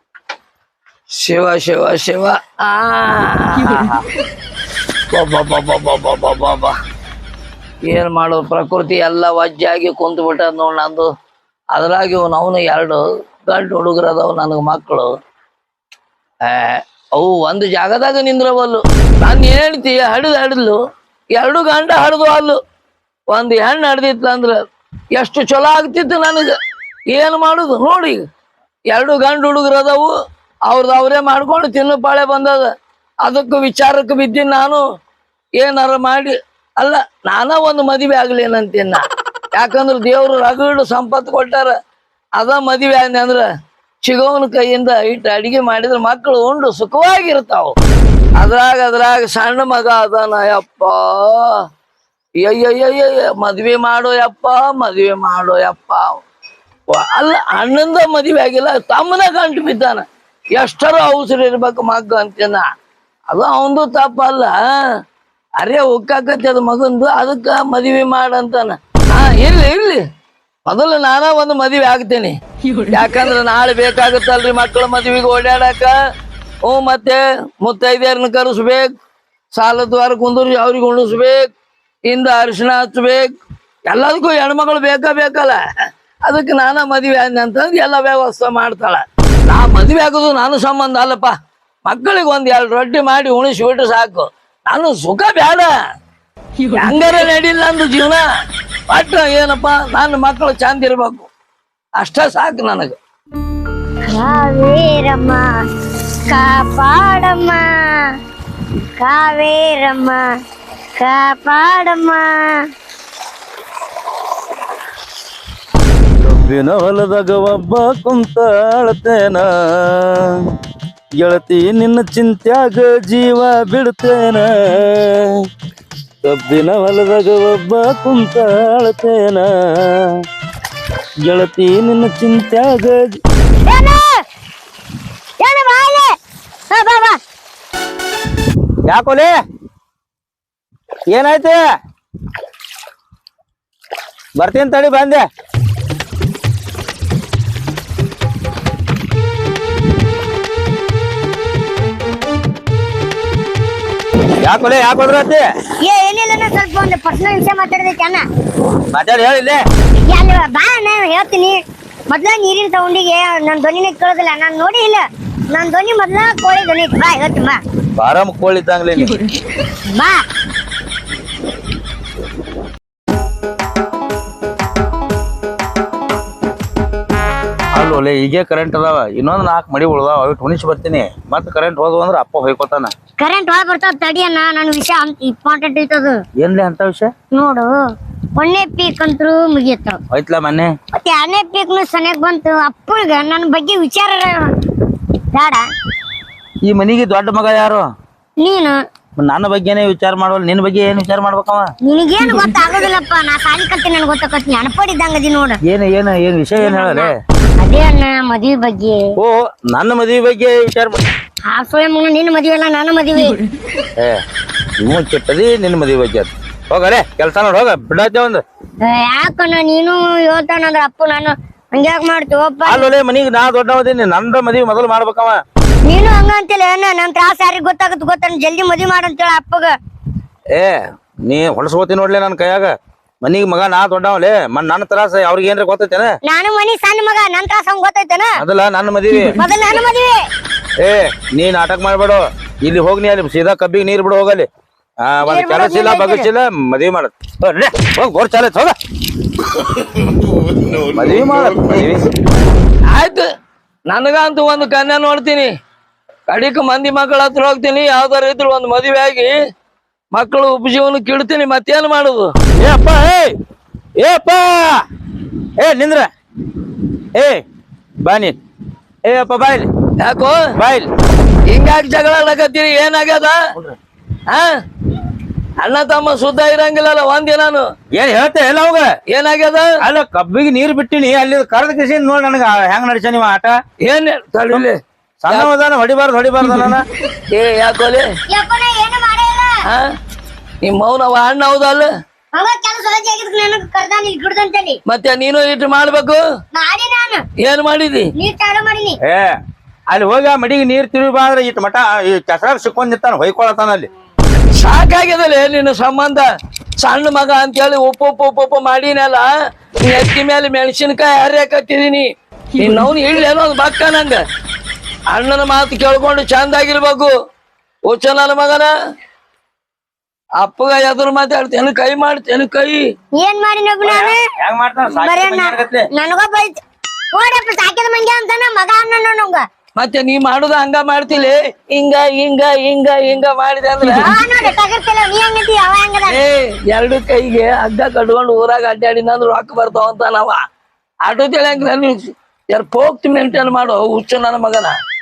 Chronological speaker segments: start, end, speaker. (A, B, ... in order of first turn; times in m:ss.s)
0:01.1-0:04.0 A
0:05.1-0:06.7 A
0:07.9-0:11.1 A
0:11.7-0:15.1 A
0:16.4-0:20.8 A
0:21.4-0:22.6 A
0:23.3-0:24.6 A
0:25.1-0:26.6 A
0:27.1-0:28.2 A
0:28.9-0:30.1 A
0:30.7-0:32.7 A
0:33.2-0:34.8 A
0:35.6-0:39.0 A
0:39.6-0:41.7 A
0:42.4-0:43.4 A
0:44.0-0:47.8 A
0:48.4-0:51.6 A
0:52.4-0:56.2 A
0:56.9-1:02.7 A
1:03.3-1:04.6 A
1:05.6-1:10.0 A
1:10.7-1:12.4 A
1:12.9-1:15.9 A
1:16.6-1:18.9 A
1:19.5-1:21.5 A
1:22.1-1:23.3 A
1:23.9-1:25.6 A
1:26.2-1:31.3 A
1:31.8-1:35.7 A
1:36.8-1:38.2 A
1:38.9-1:41.3 A
1:42.0-1:43.0 A
1:44.1-1:45.4 B
1:46.3-1:48.1 B
1:49.0-1:50.3 B
1:51.0-1:52.6 B
1:56.2-2:00.4 C
2:01.2-2:05.3 C
2:06.2-2:10.1 C
2:11.3-2:13.2 C
2:13.6-2:14.2 B
2:15.4-2:16.2 B
2:16.7-2:17.2 B
2:18.9-2:19.3 C
2:21.1-2:21.6 C
2:24.4-2:25.2 C
2:34.4-2:35.4 C
2:35.8-2:38.2 B
2:38.9-2:39.6 C
2:40.1-2:41.6 B
2:42.1-2:47.6 B
2:48.0-2:49.2 C
2:49.9-2:50.2 B
2:57.8-3:02.9 C
3:03.2-3:06.2 B
3:06.4-3:07.1 C
3:07.3-3:07.7 B
3:08.4-3:10.0 B
3:10.1-3:10.7 C
3:10.9-3:14.5 B
3:15.3-3:15.6 B
3:16.6-3:17.8 C
3:18.4-3:18.8 B
3:19.2-3:21.7 C
3:21.8-3:25.6 B
3:25.7-3:27.1 C
3:26.6-3:29.1 B
3:29.2-3:31.0 C
3:31.5-3:33.4 B
3:34.8-3:38.4 C
3:38.8-3:42.9 B
3:42.7-3:45.4 C
3:45.9-3:49.7 B
3:50.5-3:52.7 C
3:53.2-3:56.2 C
3:56.2-3:58.3 B
3:58.4-3:59.4 C
3:59.4-4:00.3 B
4:00.8-4:04.5 C
4:05.0-4:08.8 C
4:05.2-4:06.3 B
4:10.9-4:12.1 C
4:12.9-4:13.3 A
4:13.9-4:15.5 A
4:16.3-4:19.3 A
4:20.1-4:22.3 A
4:22.6-4:23.4 C
4:24.0-4:24.8 C
4:25.6-4:26.1 C
4:27.2-4:27.4 C
4:28.0-4:28.4 C
4:29.0-4:29.7 C
4:30.0-4:30.5 A
4:30.6-4:30.9 C
4:31.5-4:33.4 A
4:35.6-4:37.7 A
4:37.9-4:38.9 C
4:39.1-4:39.7 A
4:39.8-4:43.6 C
4:43.8-4:44.8 A
4:45.2-4:46.8 C
4:47.3-4:48.1 A
4:48.3-4:49.6 B
4:50.6-4:51.9 A
4:52.3-4:54.8 B
4:54.9-4:56.2 A
4:56.5-4:57.2 B
4:57.4-4:58.1 A
4:58.2-4:59.0 B
4:59.0-4:59.4 C
4:59.9-5:03.9 C
5:04.5-5:06.3 A
5:06.8-5:09.3 A
5:09.8-5:14.2 A
5:15.1-5:17.1 A
5:17.9-5:18.7 A
5:20.4-5:22.9 A
5:23.2-5:24.2 B
5:23.8-5:25.9 C
5:24.9-5:26.6 B
5:27.1-5:29.4 B
5:29.8-5:34.1 A
5:33.9-5:36.2 B
5:36.1-5:40.4 A
5:41.0-5:44.8 A